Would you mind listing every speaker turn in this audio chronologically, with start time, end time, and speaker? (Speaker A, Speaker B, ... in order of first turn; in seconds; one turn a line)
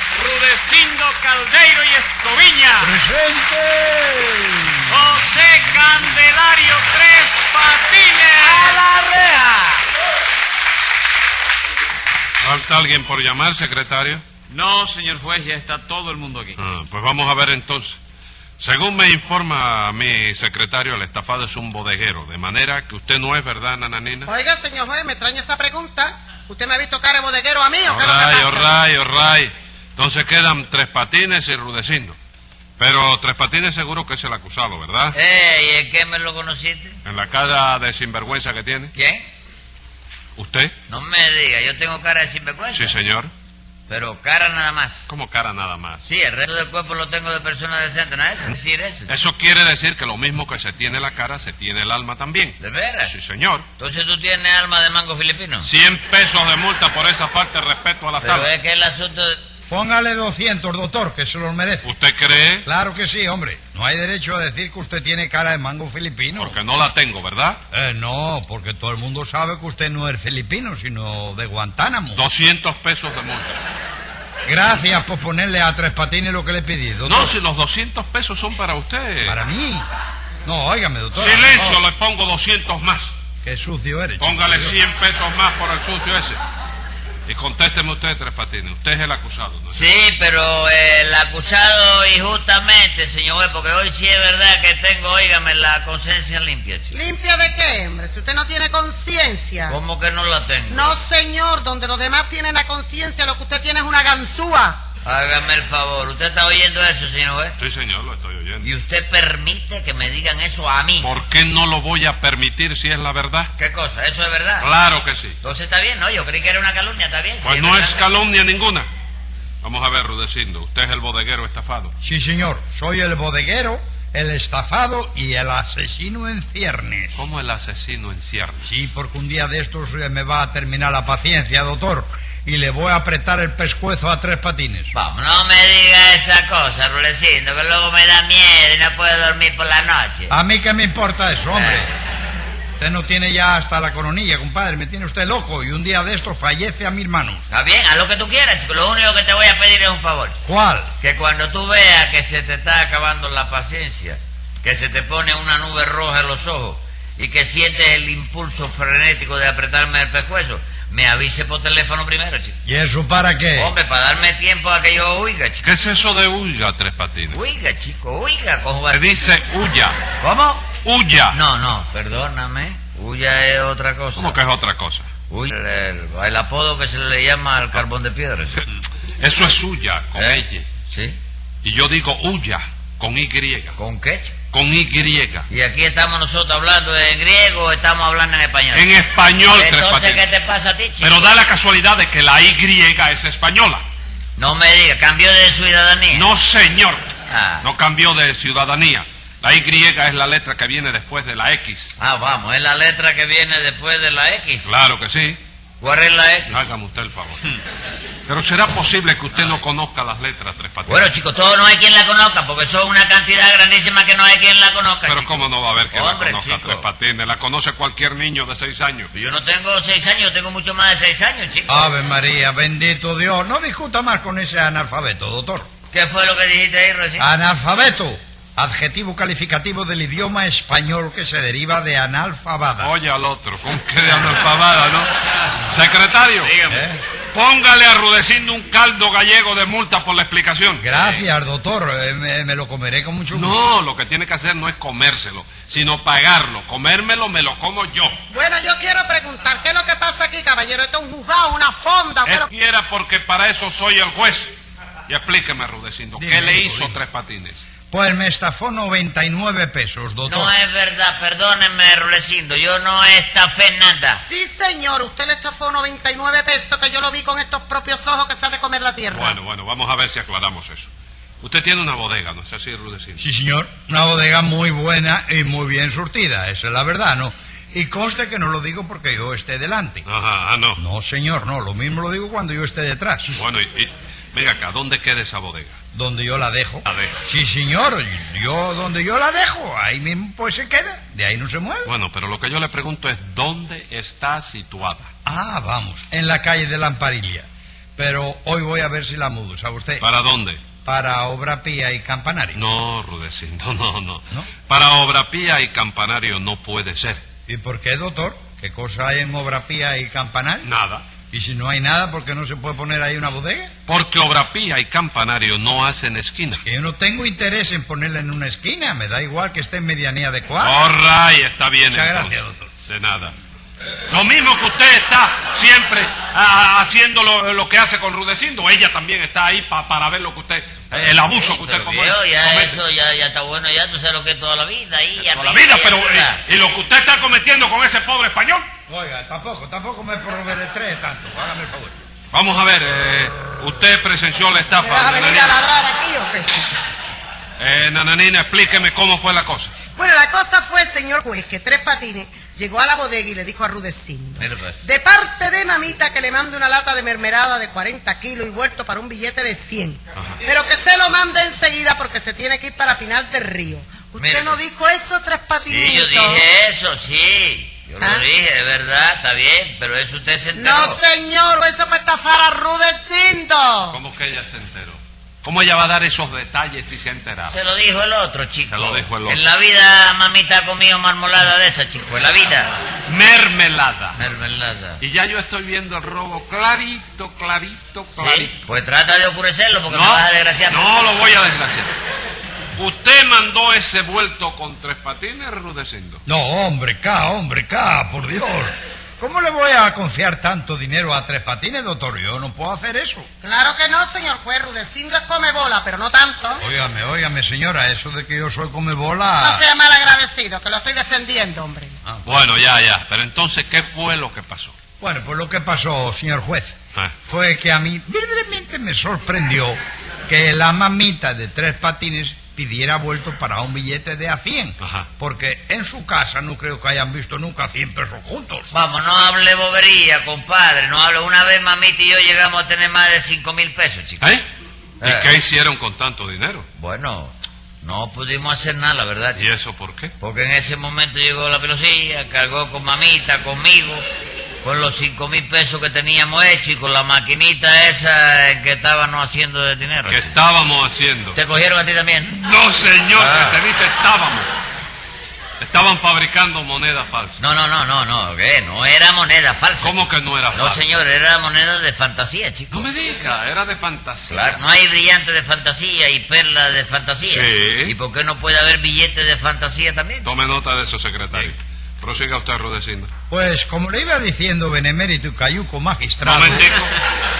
Speaker A: 0.1-3.0
Speaker B: 2.8-4.9
Speaker A: 4.9-8.8
Speaker C: 8.6-8.9
Speaker D: 12.4-14.2
Speaker A: 14.5-16.6
Speaker D: 16.6-18.0
Speaker D: 18.6-24.3
Speaker C: 24.3-28.7
Speaker D: 27.9-32.1
Speaker D: 32.8-35.1
Speaker E: 35.1-37.0
Speaker D: 37.0-38.9
Speaker E: 38.9-39.2
Speaker D: 40.3-40.7
Speaker E: 40.9-42.9
Speaker D: 42.7-43.3
Speaker E: 43.9-45.1
Speaker D: 45.1-46.0
Speaker E: 46.0-49.1
Speaker D: 49.1-53.6
Speaker E: 52.6-53.1
Speaker E: 53.8-55.7
Speaker D: 55.6-58.5
Speaker E: 58.2-59.4
Speaker B: 59.7-61.9
Speaker D: 61.8-62.6
Speaker B: 62.6-66.6
Speaker D: 66.4-67.6
Speaker B: 67.7-72.2
Speaker D: 72.1-73.6
Speaker B: 74.5-77.3
Speaker D: 77.0-79.4
Speaker B: 79.2-79.9
Speaker B: 80.5-81.8
Speaker D: 81.1-83.1
Speaker B: 83.4-84.8
Speaker D: 84.2-86.4
Speaker D: 87.2-89.8
Speaker E: 89.7-96.9
Speaker C: 96.9-99.8
Speaker E: 99.7-101.0
Speaker C: 100.7-104.8
Speaker E: 105.0-107.6
Speaker D: 107.6-108.7
Speaker E: 108.6-111.1
Speaker D: 111.0-113.5
Speaker E: 113.5-114.7
Speaker D: 114.6-115.4
Speaker E: 115.4-118.1
Speaker D: 117.4-118.9
Speaker D: 119.6-121.9
Speaker B: 122.0-127.2
Speaker D: 127.1-128.9
Speaker B: 128.7-134.9
Speaker E: 134.9-140.3
Speaker B: 140.3-141.9
Speaker E: 141.5-141.9
Speaker B: 142.8-147.4
Speaker E: 147.5-150.4
Speaker B: 150.4-150.9
Speaker E: 151.0-162.6
Speaker B: 162.6-163.7
Speaker E: 163.6-165.6
Speaker D: 165.6-167.4
Speaker E: 167.3-169.0
Speaker D: 168.9-170.0
Speaker E: 170.2-170.7
Speaker D: 170.8-171.4
Speaker E: 171.3-174.4
Speaker D: 174.2-175.1
Speaker E: 175.3-178.7
Speaker D: 179.2-180.7
Speaker E: 180.2-181.2
Speaker D: 181.6-183.8
Speaker E: 183.8-184.3
Speaker D: 184.5-185.5
Speaker E: 185.5-188.9
Speaker D: 188.7-190.2
Speaker E: 189.4-191.3
Speaker D: 191.0-193.8
Speaker E: 194.3-196.3
Speaker D: 196.1-197.1
Speaker E: 197.3-197.7
Speaker D: 197.6-201.9
Speaker E: 202.0-204.7
Speaker D: 204.6-205.4
Speaker E: 205.8-206.6
Speaker D: 206.5-207.6
Speaker D: 208.2-211.1
Speaker E: 210.9-216.9
Speaker D: 215.1-219.1
Speaker E: 219.1-221.8
Speaker B: 221.7-225.7
Speaker E: 225.9-227.3
Speaker B: 227.2-232.9
Speaker D: 232.8-235.1
Speaker D: 235.7-236.5
Speaker A: 236.4-236.9
Speaker B: 236.7-237.0
Speaker D: 237.3-241.2
Speaker B: 240.8-243.7
Speaker D: 243.3-248.2
Speaker C: 248.3-252.5
Speaker D: 252.2-254.5
Speaker D: 255.1-257.6
Speaker B: 256.2-257.0
Speaker B: 257.9-260.5
Speaker E: 260.2-264.2
Speaker C: 264.2-269.4
Speaker D: 269.1-273.2
Speaker B: 273.2-280.1
Speaker D: 280.0-280.8
Speaker B: 280.8-283.4
Speaker D: 283.3-285.7
Speaker B: 285.9-291.9
Speaker D: 286.9-287.1
Speaker D: 291.8-295.1
Speaker B: 295.2-297.4
Speaker B: 298.0-300.1
Speaker D: 300.0-300.6
Speaker B: 300.8-302.6
Speaker D: 302.5-307.2
Speaker B: 307.5-310.7
Speaker D: 310.6-311.0
Speaker B: 311.3-313.7
Speaker D: 313.9-316.6
Speaker B: 316.6-320.8
Speaker D: 320.6-323.3
Speaker B: 321.9-322.7
Speaker D: 324.1-332.8
Speaker E: 331.2-336.4
Speaker D: 335.2-338.7
Speaker B: 338.9-341.9
Speaker D: 342.3-345.6
Speaker C: 344.8-346.7
Speaker D: 347.6-349.7
Speaker C: 349.9-366.4
Speaker E: 354.4-354.8
Speaker E: 364.2-364.6
Speaker E: 365.7-371.0
Speaker C: 368.0-368.2
Speaker C: 370.5-374.0
Speaker D: 373.9-377.5
Speaker E: 377.5-382.8
Speaker D: 378.6-379.4
Speaker D: 383.1-384.2
Speaker E: 384.1-385.0
Speaker D: 385.0-388.6
Speaker E: 388.2-390.9
Speaker D: 389.9-391.9
Speaker D: 392.8-396.2
Speaker B: 396.2-403.3
Speaker C: 403.4-406.6
Speaker B: 406.6-409.6
Speaker C: 409.4-412.0
Speaker B: 412.0-412.4
Speaker D: 412.2-414.8
Speaker B: 415.0-416.7
Speaker B: 417.2-419.8
Speaker B: 420.3-428.7
Speaker D: 424.8-425.1
Speaker E: 428.7-434.3
Speaker E: 435.0-435.3
Speaker D: 435.0-436.7
Speaker E: 436.8-439.4
Speaker D: 439.3-440.1
Speaker E: 440.2-444.0
Speaker E: 444.6-450.3
Speaker D: 450.1-451.4
Speaker E: 451.3-452.4
Speaker D: 452.4-454.5
Speaker E: 453.1-453.6
Speaker D: 455.6-457.4
Speaker E: 457.4-462.9
Speaker D: 459.8-460.9
Speaker D: 462.7-464.6
Speaker E: 464.3-470.3
Speaker D: 467.2-467.9
Speaker D: 470.2-473.1
Speaker B: 473.3-476.6
Speaker D: 476.2-476.9